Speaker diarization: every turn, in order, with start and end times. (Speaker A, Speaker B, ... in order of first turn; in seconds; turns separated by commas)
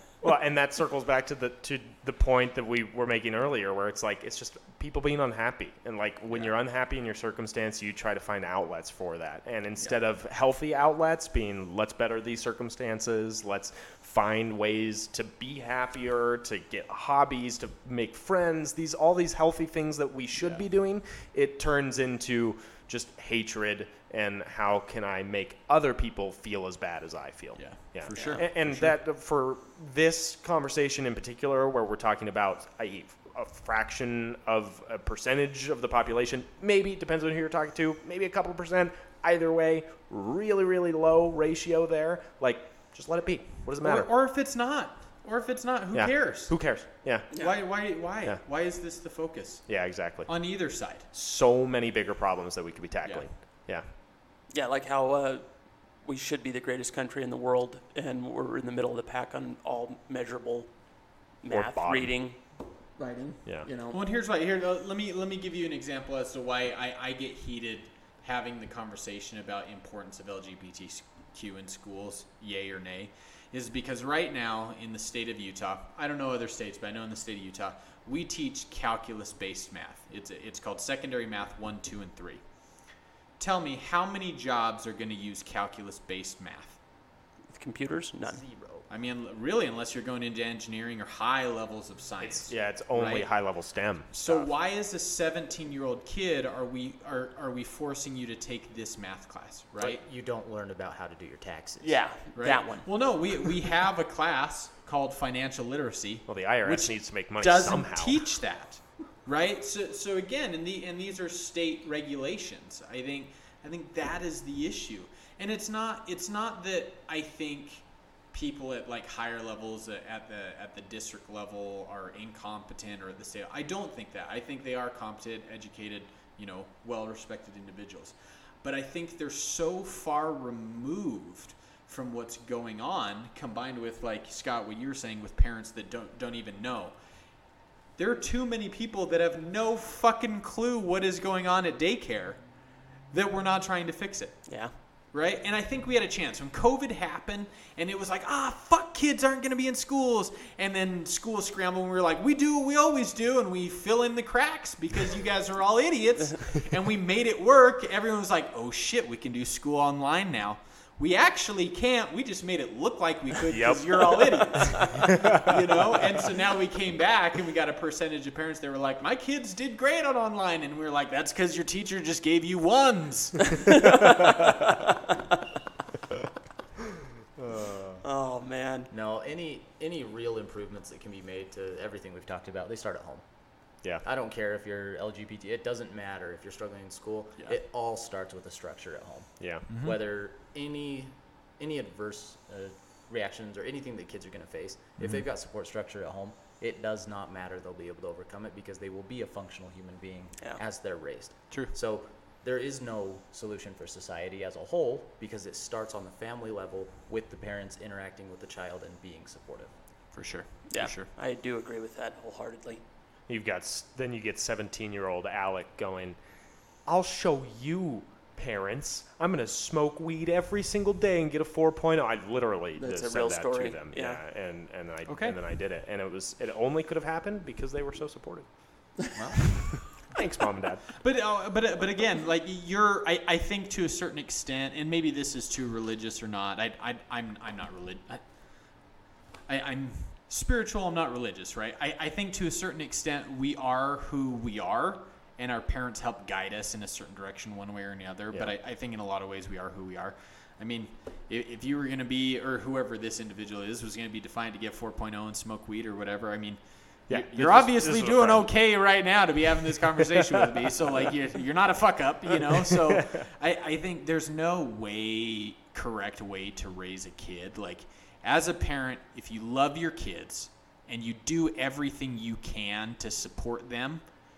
Speaker A: 0.2-44.1, Speaker B: 27.6-29.0, Speaker C: 28.1-28.4, Speaker B: 43.8-46.6, Speaker A: 45.9-47.4, Speaker B: 47.3-51.1, Speaker A: 49.7-50.3, Speaker A: 51.1-53.9, Speaker C: 54.5-60.7, Speaker C: 61.4-64.0, Speaker A: 61.5-62.1, Speaker B: 63.9-82.4, Speaker B: 83.4-86.8, Speaker C: 87.5-88.4, Speaker D: 88.2-88.8, Speaker B: 88.9-100.0, Speaker A: 92.2-94.4, Speaker D: 99.8-102.0, Speaker C: 101.8-102.9, Speaker B: 102.3-136.9, Speaker A: 106.3-108.2, Speaker B: 138.0-142.6, Speaker B: 143.1-173.7, Speaker C: 144.5-144.7, Speaker A: 163.5-164.3, Speaker C: 164.6-164.9, Speaker A: 165.1-165.8, Speaker C: 173.7-174.3, Speaker A: 177.4-178.0, Speaker C: 178.0-178.9, Speaker D: 178.9-183.3, Speaker D: 184.0-209.7, Speaker A: 189.4-189.7, Speaker B: 189.7-190.0, Speaker B: 195.0-195.2, Speaker B: 210.1-211.1, Speaker C: 210.7-212.8, Speaker A: 213.3-216.2, Speaker A: 216.8-229.0, Speaker C: 222.8-224.2, Speaker B: 225.1-225.4, Speaker D: 229.1-229.5, Speaker A: 230.0-230.8, Speaker B: 231.0-238.8, Speaker B: 239.5-274.0, Speaker A: 257.1-258.5, Speaker A: 260.2-260.5, Speaker A: 262.5-263.3